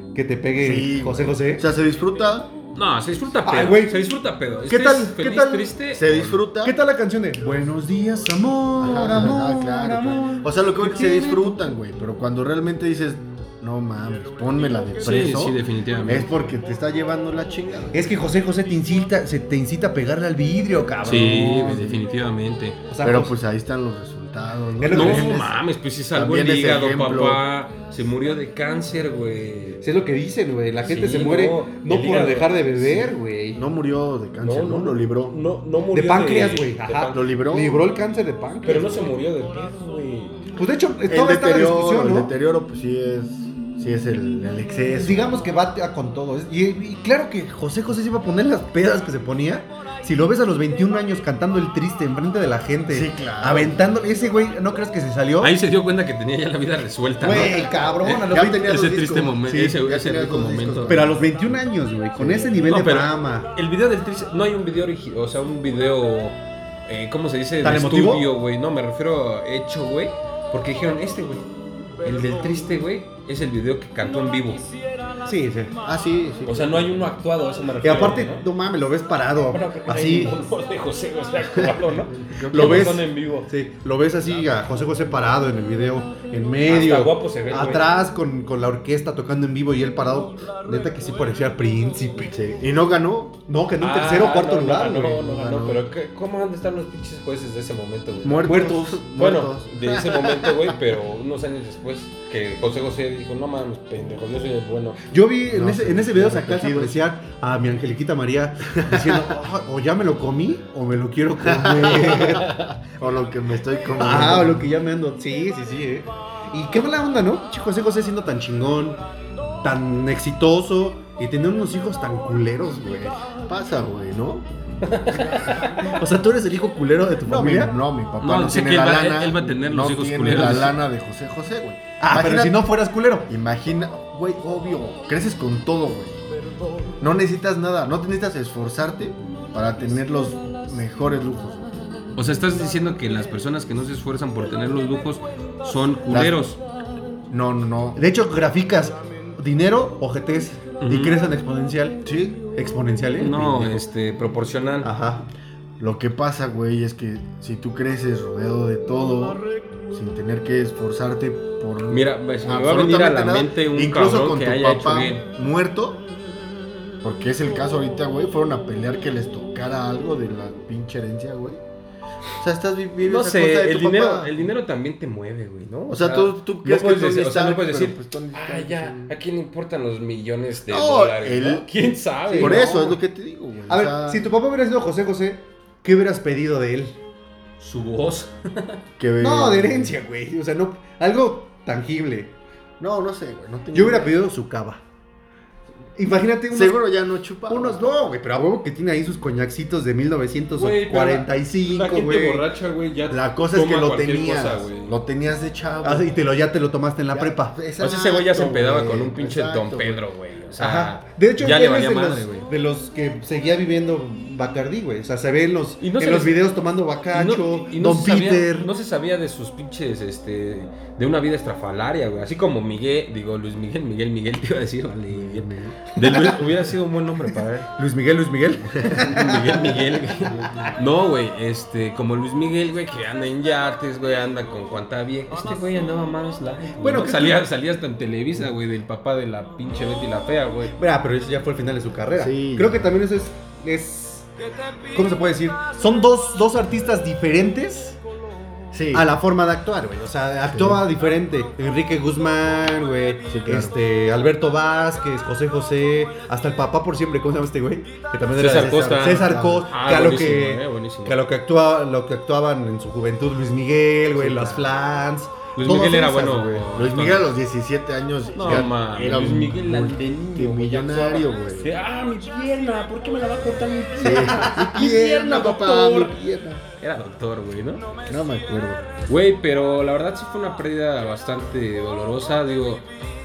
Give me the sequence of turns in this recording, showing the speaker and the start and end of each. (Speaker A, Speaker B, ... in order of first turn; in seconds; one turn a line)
Speaker A: 0.1-1.7
Speaker B: 0.6-2.5
Speaker C: 2.7-6.3
Speaker A: 3.5-4.0
Speaker A: 4.7-11.6
Speaker B: 5.9-6.7
Speaker B: 8.8-18.0
Speaker C: 15.0-16.3
Speaker A: 17.9-21.9
Speaker B: 21.0-22.0
Speaker C: 21.0-22.8
Speaker A: 22.9-23.4
Speaker B: 23.0-25.6
Speaker A: 24.8-25.4
Speaker C: 24.9-29.8
Speaker B: 26.1-27.4
Speaker A: 29.8-33.6
Speaker C: 30.9-33.2
Speaker B: 33.5-35.4
Speaker C: 34.4-37.3
Speaker A: 35.9-39.0
Speaker B: 37.1-37.8
Speaker C: 38.6-40.5
Speaker A: 40.5-42.3
Speaker B: 41.1-45.3
Speaker A: 45.0-55.5
Speaker B: 52.9-53.8
Speaker C: 55.4-61.0
Speaker A: 57.2-58.8
Speaker B: 58.3-61.6
Speaker A: 60.9-63.5
Speaker B: 62.1-62.5
Speaker C: 62.6-71.5
Speaker A: 67.6-68.3
Speaker C: 72.0-74.6
Speaker A: 75.2-75.8
Speaker B: 75.8-76.9
Speaker C: 76.4-78.4
Speaker A: 77.8-80.3
Speaker C: 79.5-83.5
Speaker B: 81.6-83.0
Speaker A: 82.5-92.3
Speaker C: 86.7-87.8
Speaker B: 92.3-93.4
Speaker A: 93.5-95.6
Speaker C: 93.8-105.0
Speaker B: 95.2-95.8
Speaker B: 98.2-100.6
Speaker A: 98.4-99.0
Speaker A: 105.1-112.5
Speaker B: 105.5-106.9
Speaker B: 108.9-109.2
Speaker B: 111.4-114.6
Speaker A: 114.0-119.0
Speaker A: 119.6-123.2
Speaker B: 123.5-124.5
Speaker C: 124.8-125.5
Speaker B: 125.1-126.0
Speaker A: 125.7-127.8
Speaker B: 127.2-132.7
Speaker C: 128.2-130.8
Speaker A: 130.3-130.6
Speaker A: 132.0-133.3
Speaker B: 133.3-136.2
Speaker B: 137.0-141.7
Speaker C: 142.2-146.6
Speaker B: 146.1-146.3
Speaker B: 147.3-148.0
Speaker A: 147.9-152.0
Speaker C: 150.8-151.2
Speaker B: 152.0-152.4
Speaker A: 152.5-153.8
Speaker C: 153.2-154.9
Speaker A: 154.8-155.2
Speaker B: 155.8-166.0
Speaker C: 161.9-165.2
Speaker B: 167.0-171.6
Speaker B: 172.4-174.3
Speaker C: 173.0-183.0
Speaker B: 175.9-179.1
Speaker B: 180.7-181.7
Speaker B: 182.3-184.2
Speaker A: 182.3-182.9
Speaker A: 183.7-187.0
Speaker C: 187.6-188.8
Speaker B: 189.0-189.9
Speaker A: 189.2-192.3
Speaker B: 192.8-194.2
Speaker A: 193.7-194.8
Speaker A: 196.0-196.8
Speaker B: 196.5-197.8
Speaker A: 197.5-202.5
Speaker C: 200.6-204.9
Speaker B: 203.1-206.1
Speaker A: 205.8-207.6
Speaker B: 207.1-210.0
Speaker C: 207.8-212.5
Speaker A: 210.5-218.7
Speaker C: 215.8-216.4
Speaker C: 217.1-227.7
Speaker B: 225.1-225.9
Speaker A: 227.7-229.7
Speaker C: 228.9-240.7
Speaker A: 230.4-230.7
Speaker A: 236.8-237.4
Speaker A: 240.8-244.3
Speaker B: 242.1-242.9
Speaker A: 244.9-248.0
Speaker B: 248.7-249.1
Speaker A: 248.9-266.6
Speaker B: 250.5-250.8
Speaker B: 253.3-253.7
Speaker C: 258.3-261.2
Speaker B: 258.4-259.7
Speaker B: 264.2-264.5
Speaker C: 264.3-264.6
Speaker C: 265.5-267.3
Speaker B: 266.6-271.7
Speaker C: 268.3-277.9
Speaker B: 274.0-276.6
Speaker A: 274.0-274.9
Speaker B: 278.1-278.9
Speaker C: 279.1-282.9